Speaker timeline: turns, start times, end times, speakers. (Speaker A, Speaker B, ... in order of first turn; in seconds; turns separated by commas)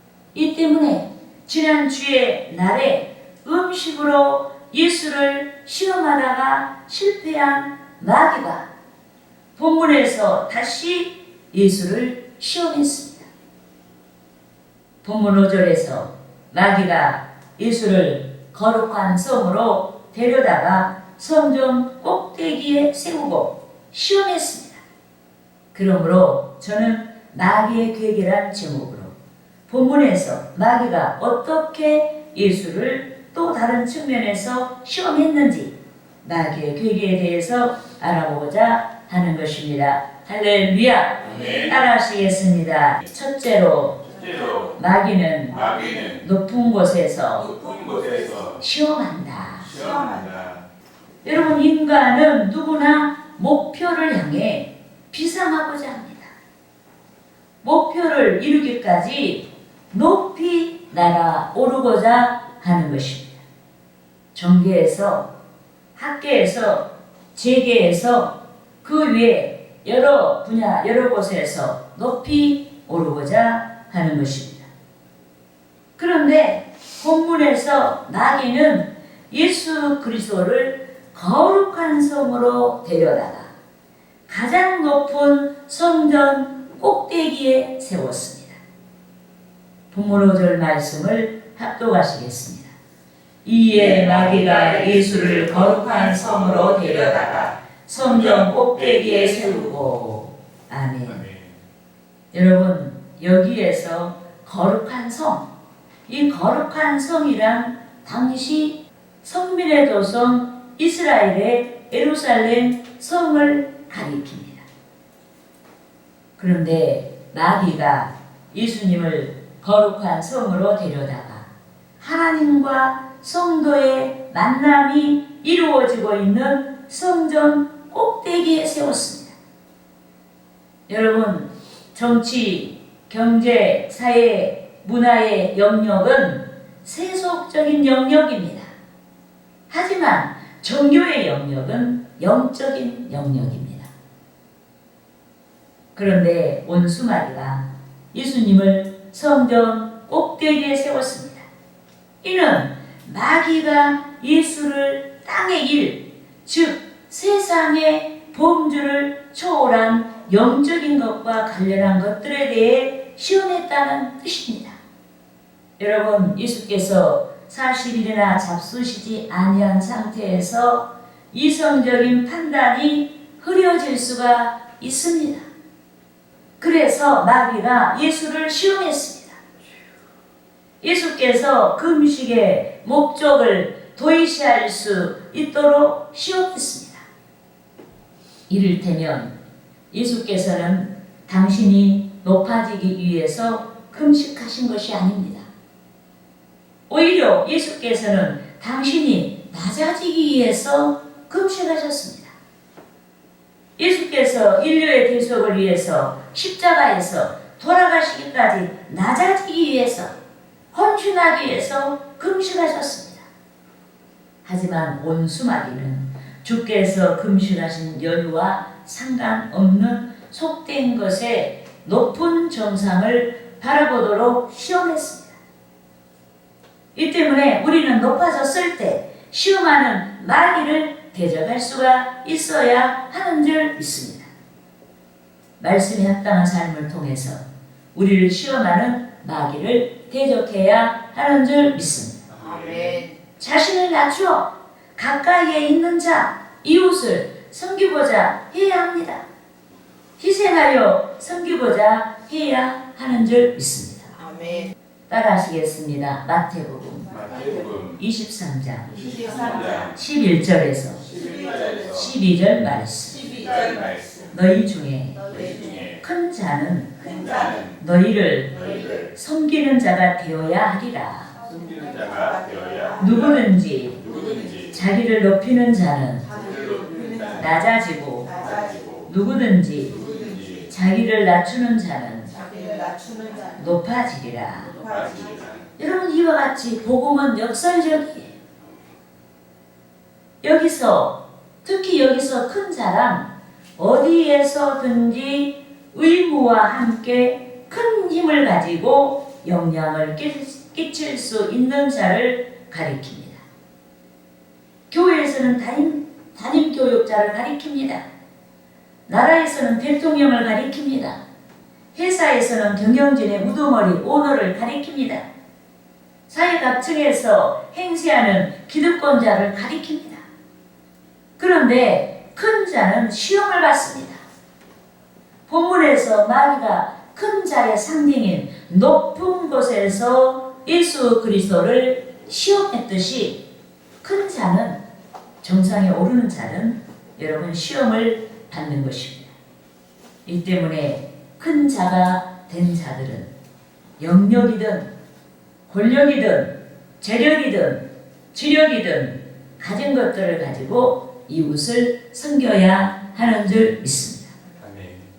Speaker A: 0.3-8.7, Speaker A: 9.6-13.3, Speaker A: 15.0-24.8, Speaker A: 25.7-29.1, Speaker A: 29.7-44.1, Speaker B: 41.2-41.8, Speaker B: 44.1-44.8, Speaker A: 44.8-47.5, Speaker B: 45.5-46.2, Speaker B: 47.4-48.6, Speaker C: 47.7-48.1, Speaker A: 48.6-49.7, Speaker B: 49.6-50.6, Speaker C: 49.7-50.3, Speaker A: 51.2-56.3, Speaker A: 57.6-63.4, Speaker A: 64.3-65.3, Speaker A: 66.0-74.7, Speaker A: 76.0-83.5, Speaker A: 84.3-88.6, Speaker A: 89.9-92.7, Speaker A: 93.5-101.2, Speaker B: 94.0-95.7, Speaker B: 98.1-98.5, Speaker B: 101.1-101.6, Speaker A: 102.3-105.5, Speaker A: 106.1-114.7, Speaker A: 116.4-121.5, Speaker A: 122.0-129.3, Speaker A: 130.9-138.7, Speaker A: 139.7-143.9, Speaker A: 145.9-151.5, Speaker A: 152.2-164.8, Speaker A: 165.8-175.5, Speaker A: 176.6-179.4, Speaker A: 180.8-187.1, Speaker A: 188.5-189.3, Speaker A: 189.9-195.5, Speaker A: 196.9-202.3, Speaker A: 203.8-210.2, Speaker A: 210.7-213.3, Speaker A: 214.4-225.4, Speaker A: 226.9-234.3, Speaker A: 235.6-242.2, Speaker B: 242.3-243.0, Speaker C: 242.4-243.2, Speaker A: 243.4-249.2, Speaker A: 250.2-254.1, Speaker C: 254.2-254.7, Speaker A: 255.1-259.0, Speaker B: 257.1-258.0, Speaker B: 258.9-260.0, Speaker C: 258.9-259.9, Speaker A: 259.9-261.1, Speaker B: 261.0-262.1, Speaker C: 261.1-261.8, Speaker A: 261.9-263.3, Speaker B: 263.1-264.4, Speaker C: 263.2-263.9, Speaker A: 264.3-265.3, Speaker B: 265.3-266.0, Speaker C: 265.3-265.8, Speaker A: 266.0-271.3, Speaker C: 267.0-267.6, Speaker B: 267.1-267.8, Speaker B: 268.5-269.1, Speaker B: 271.4-273.4, Speaker C: 271.9-273.2, Speaker A: 273.0-274.1, Speaker B: 274.0-274.8, Speaker C: 274.1-274.4, Speaker A: 274.7-276.3, Speaker C: 276.3-277.5, Speaker B: 276.3-277.6, Speaker A: 277.3-278.4, Speaker C: 278.3-278.9, Speaker B: 278.4-279.1, Speaker A: 279.1-280.1, Speaker B: 279.9-280.7, Speaker C: 280.0-280.6, Speaker A: 280.7-282.3, Speaker C: 282.3-283.6, Speaker A: 283.6-284.7, Speaker B: 284.7-285.7, Speaker C: 284.8-285.6, Speaker A: 285.8-288.3, Speaker A: 290.4-303.4, Speaker A: 304.9-308.1, Speaker A: 309.1-311.2, Speaker A: 311.9-315.3, Speaker A: 316.3-320.3, Speaker A: 321.4-324.2, Speaker A: 325.5-333.4, Speaker A: 334.0-334.8, Speaker A: 335.4-339.3, Speaker A: 340.2-343.3, Speaker A: 344.0-344.9, Speaker A: 345.7-354.3, Speaker B: 354.6-355.1